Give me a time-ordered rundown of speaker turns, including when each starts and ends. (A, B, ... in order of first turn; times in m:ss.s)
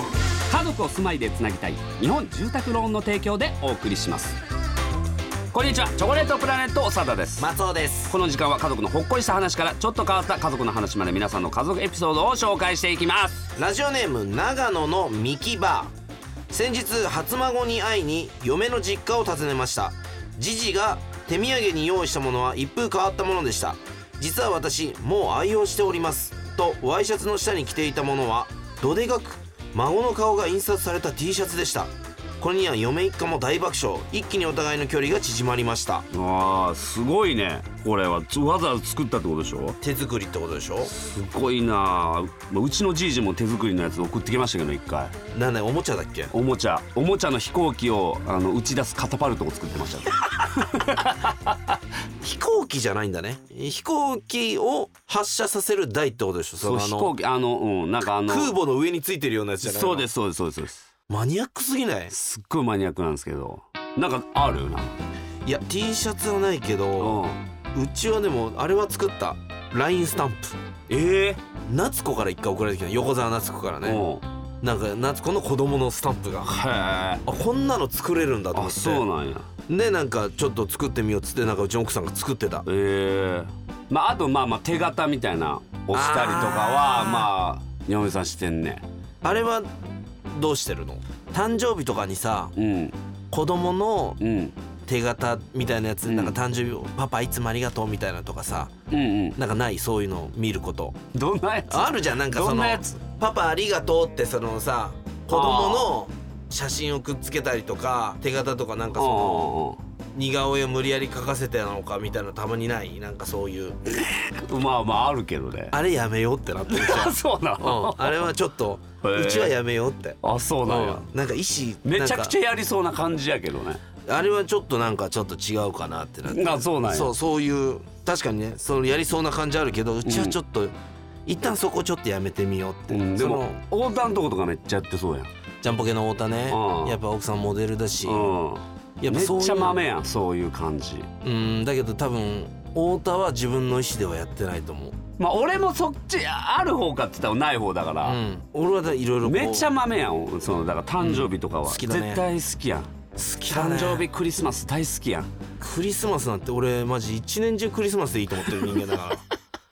0:00.5-0:04.4 A
0:05.5-0:07.5 A
0:07.4-0:08.2 B
0:08.1-0:13.5 A
0:13.6-0:15.9 B
0:16.5-0:36.0 B
0:36.1-0:39.8 A
0:39.8-0:40.9 B
0:40.9-0:45.1 A
0:45.3-0:46.3 B
0:46.3-0:51.6 A
0:52.2-0:57.1 B
0:56.6-0:58.6 A
0:58.0-1:00.1 B
0:59.6-1:00.8 A
1:01.1-1:02.1 B
1:02.1-1:04.9 A
1:05.4-1:07.2 B
1:07.0-1:07.4 A
1:07.7-1:10.6 B
1:10.9-1:11.4 A
1:11.7-1:14.0 B
1:13.8-1:14.2 A
1:14.6-1:16.5 B
1:16.4-1:17.2 A
1:17.2-1:19.0 B
1:18.5-1:19.5 A
1:19.7-1:22.6 B
1:22.7-1:28.8 A
1:25.9-1:27.3 B
1:29.2-1:29.7 B
1:30.4-1:32.5 B
1:32.6-1:33.0 A
1:33.3-1:34.2 B
1:34.2-1:34.6 A
1:34.8-1:38.7 B
1:36.0-1:36.3 A
1:38.9-1:39.4 A
1:39.4-1:41.0 B
1:41.1-1:42.8 A
1:41.7-1:49.5 B
1:45.3-1:45.9 A
1:49.0-1:49.8 A
1:50.2-1:53.8 B
1:53.9-1:55.7 A
1:55.7-2:02.3 B
1:56.7-1:58.3 A
1:59.0-1:59.6 A
2:00.2-2:01.0 A
2:01.8-2:03.8 A
2:04.1-2:10.7 B
2:06.2-2:07.1 A
2:10.0-2:10.4 A
2:11.2-2:13.6 B
2:12.9-2:15.3 A
2:15.6-2:18.3 B
2:16.5-2:17.0 A
2:18.0-2:21.1 A
2:19.0-2:19.8 B
2:21.2-2:25.0 B
2:25.2-2:28.2 A
2:28.0-2:29.7 B
2:29.2-2:32.9 A
2:31.0-2:32.2 B
2:33.2-2:34.1 B
2:33.5-2:35.3 A
2:35.6-2:39.2 B